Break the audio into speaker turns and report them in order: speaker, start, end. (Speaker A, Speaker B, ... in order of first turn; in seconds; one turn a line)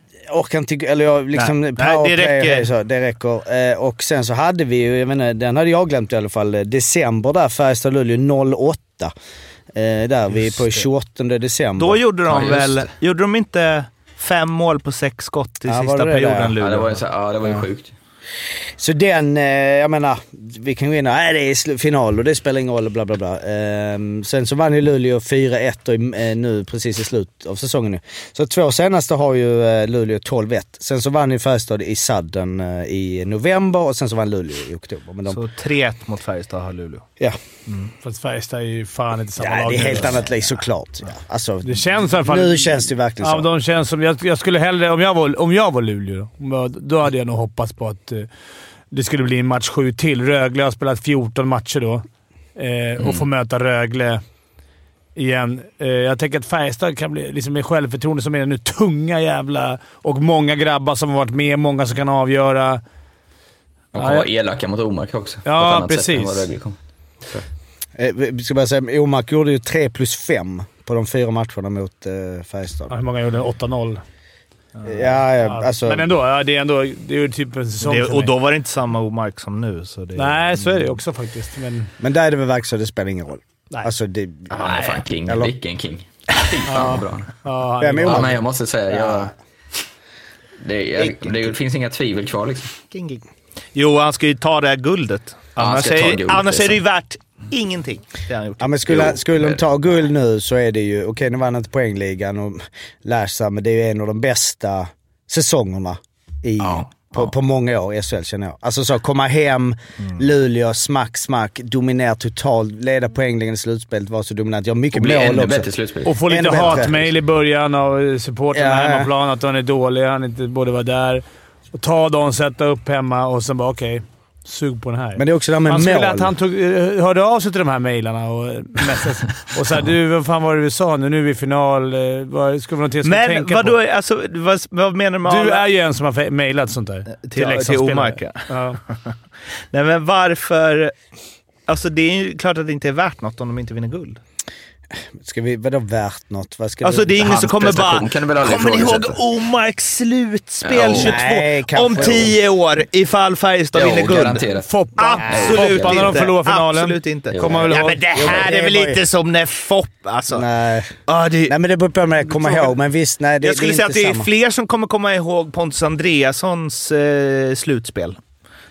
Speaker A: 0.3-9.1
Speaker B: 1.4-2.7
Speaker A: 9.7-12.0
Speaker B: 11.8-17.0
Speaker C: 12.3-12.9
Speaker A: 15.7-16.6
Speaker C: 16.6-17.9
Speaker A: 18.8-35.4
Speaker B: 35.3-37.1
Speaker D: 38.0-40.3
Speaker A: 39.4-43.5
Speaker D: 41.6-48.3
Speaker D: 48.9-52.0
Speaker D: 52.6-54.2
Speaker C: 53.0-53.2
Speaker D: 55.2-62.8
Speaker C: 63.9-67.5
Speaker D: 64.0-64.3
Speaker D: 65.5-66.5
Speaker A: 68.0-72.9
Speaker D: 72.9-74.0
Speaker B: 74.8-75.0
Speaker A: 74.8-76.1
Speaker D: 75.4-78.3
Speaker B: 77.8-80.8
Speaker D: 80.2-81.9
Speaker A: 82.0-85.5
Speaker C: 84.5-87.3
Speaker D: 86.7-88.3
Speaker A: 87.8-89.3
Speaker C: 88.0-89.3
Speaker C: 90.6-92.7
Speaker B: 91.0-91.3
Speaker B: 92.9-93.2
Speaker B: 93.7-99.1
Speaker C: 95.6-96.8
Speaker A: 98.6-115.7
Speaker C: 98.9-99.6
Speaker C: 106.6-107.3
Speaker C: 114.9-116.9
Speaker D: 116.0-121.2
Speaker A: 116.2-117.0
Speaker A: 118.5-119.1
Speaker D: 121.8-133.8
Speaker A: 125.2-126.3
Speaker B: 133.1-135.6
Speaker D: 135.3-138.8
Speaker B: 137.2-139.1
Speaker B: 139.7-140.9
Speaker B: 141.7-144.2
Speaker A: 145.1-147.4
Speaker B: 146.8-154.5
Speaker C: 147.2-149.2
Speaker C: 150.6-151.2
Speaker A: 150.9-152.4
Speaker C: 153.8-154.7
Speaker D: 154.6-158.0
Speaker B: 155.0-160.5
Speaker C: 155.2-156.2
Speaker C: 157.3-157.8
Speaker A: 158.1-159.0
Speaker A: 160.3-164.3
Speaker B: 161.1-161.6
Speaker B: 162.3-162.8
Speaker B: 163.4-168.2